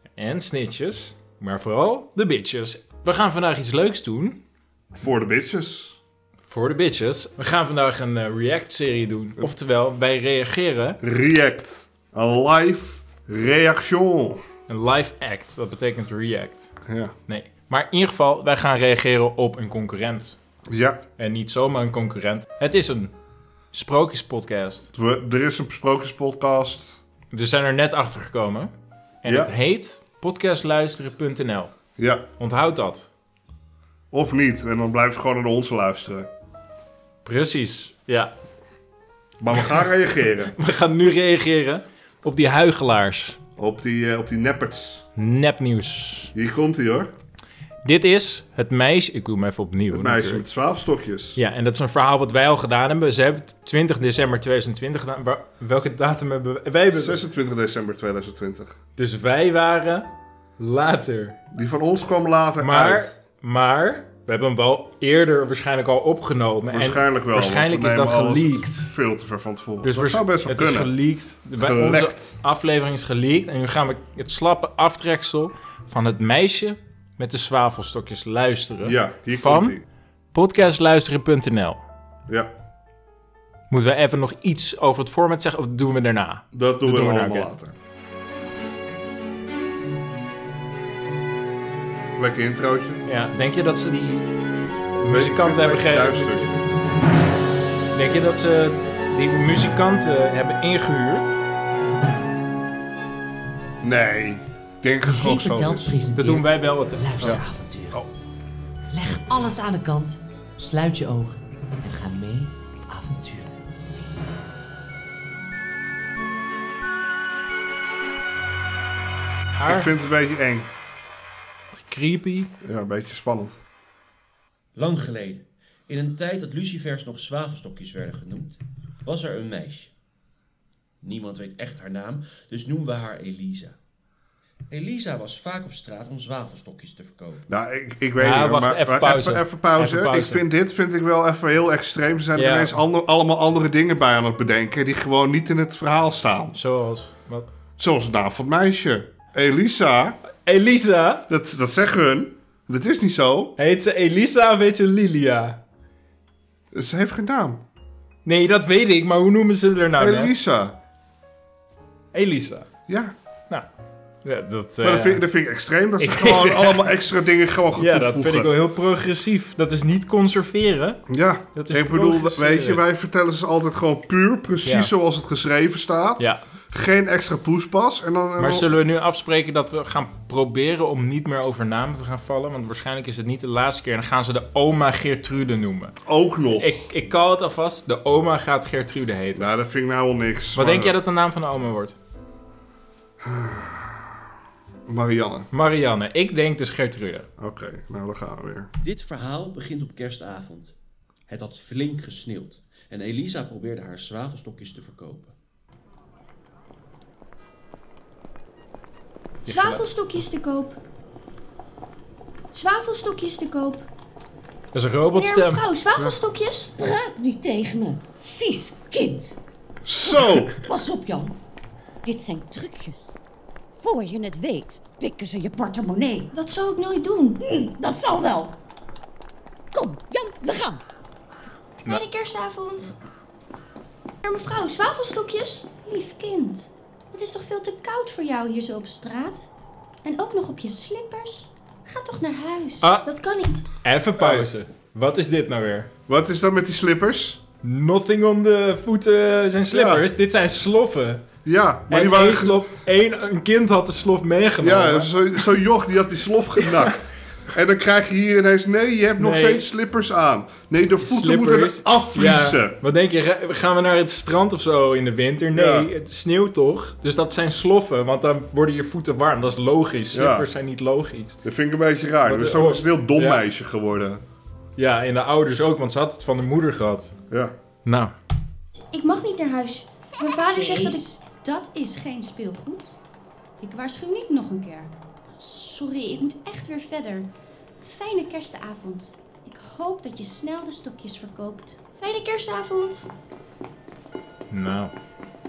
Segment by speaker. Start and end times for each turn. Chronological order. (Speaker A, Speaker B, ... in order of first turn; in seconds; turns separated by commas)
Speaker A: 0.1-4.4, Speaker B: 4.9-6.0, Speaker A: 6.4-11.0, Speaker B: 11.0-14.4, Speaker A: 14.7-16.7, Speaker B: 16.9-17.1, Speaker A: 17.3-20.4, Speaker B: 20.7-21.0, Speaker A: 21.2-23.1, Speaker A: 23.7-24.9, Speaker B: 24.9-27.0, Speaker A: 27.3-28.7, Speaker A: 29.2-31.7, Speaker B: 29.2-29.5, Speaker B: 32.0-32.2, Speaker A: 32.4-33.1, Speaker B: 34.1-36.3, Speaker A: 37.2-38.3, Speaker B: 39.4-40.5, Speaker A: 40.5-43.4, Speaker B: 43.6-45.0, Speaker A: 45.1-46.3, Speaker B: 46.3-47.1, Speaker A: 47.8-50.4, Speaker B: 49.9-51.4, Speaker A: 51.4-57.2, Speaker B: 56.9-58.7, Speaker A: 59.0-60.1, Speaker A: 60.6-61.4, Speaker B: 61.5-63.1, Speaker A: 62.6-68.7, Speaker B: 66.7-70.9, Speaker A: 69.8-79.8, Speaker B: 71.6-72.3, Speaker B: 78.8-79.8, Speaker A: 80.3-81.8, Speaker A: 83.7-87.5, Speaker B: 86.5-87.7, Speaker B: 92.2-93.0, Speaker A: 93.0-94.4, Speaker A: 95.0-96.8, Speaker B: 95.1-96.5, Speaker A: 97.9-101.4, Speaker B: 103.8-106.0, Speaker C: 105.0-108.0, Speaker A: 106.1-107.3, Speaker B: 107.2-108.1, Speaker C: 108.9-113.6, Speaker A: 119.6-119.9, Speaker B: 119.7-120.7, Speaker A: 121.7-122.5, Speaker B: 122.6-123.6, Speaker D: 124.7-129.9, Speaker D: 131.0-133.8, Speaker D: 134.7-137.4, Speaker B: 137.5-146.6, Speaker A: 138.2-140.4, Speaker A: 142.3-142.8, Speaker A: 146.5-147.5, Speaker B: 147.8-150.2, Speaker A: 150.4-151.2, Speaker B: 151.3-153.5, Speaker A: 153.6-155.6, Speaker B: 156.7-157.6, Speaker A: 158.2-160.3, Speaker B: 160.0-160.8, Speaker A: 162.1-162.7, Speaker B: 162.9-163.1, Speaker A: 164.2-165.2, Speaker B: 164.8-168.5, Speaker A: 166.0-166.9, Speaker A: 167.8-171.0, Speaker B: 171.1-178.7, Speaker A: 171.5-172.8, Speaker A: 174.6-174.9, Speaker A: 178.4-185.9, Speaker B: 186.0-186.8, Speaker A: 186.6-189.4, Speaker B: 189.3-191.0, Speaker A: 190.6-191.9, Speaker B: 193.2-194.1, Speaker B: 194.9-195.5, Speaker A: 195.5-197.3, Speaker B: 197.4-198.7, Speaker D: 198.8-200.7, Speaker D: 201.3-205.3, Speaker A: 209.4-209.8, Speaker E: 209.5-210.8, Speaker E: 212.5-213.8, Speaker A: 214.7-215.6, Speaker E: 215.1-216.7, Speaker F: 216.8-219.4, Speaker B: 219.8-220.6, Speaker F: 220.0-221.3, Speaker F: 222.0-223.1, Speaker F: 223.8-226.3, Speaker E: 226.3-227.4, Speaker F: 227.4-228.6, Speaker F: 229.7-230.8, Speaker E: 231.8-232.9, Speaker E: 234.2-235.7, Speaker G: 235.8-239.5, Speaker G: 240.0-242.9, Speaker A: 242.8-243.1, Speaker E: 243.0-243.6, Speaker A: 243.8-245.9, Speaker B: 244.2-244.5, Speaker B: 246.1-247.4, Speaker A: 247.6-251.2, Speaker B: 249.7-250.0, Speaker B: 251.4-252.6, Speaker A: 251.9-255.2, Speaker B: 254.6-262.8, Speaker A: 259.2-259.7, Speaker A: 261.0-271.4, Speaker B: 265.5-265.9, Speaker B: 270.1-270.5, Speaker B: 271.4-274.2, Speaker A: 272.2-273.4, Speaker A: 274.8-277.1, Speaker A: 277.8-278.1, Speaker E: 278.9-281.1, Speaker G: 280.5-283.0, Speaker G: 283.6-291.8, Speaker E: 292.0-293.1, Speaker A: 294.5-294.9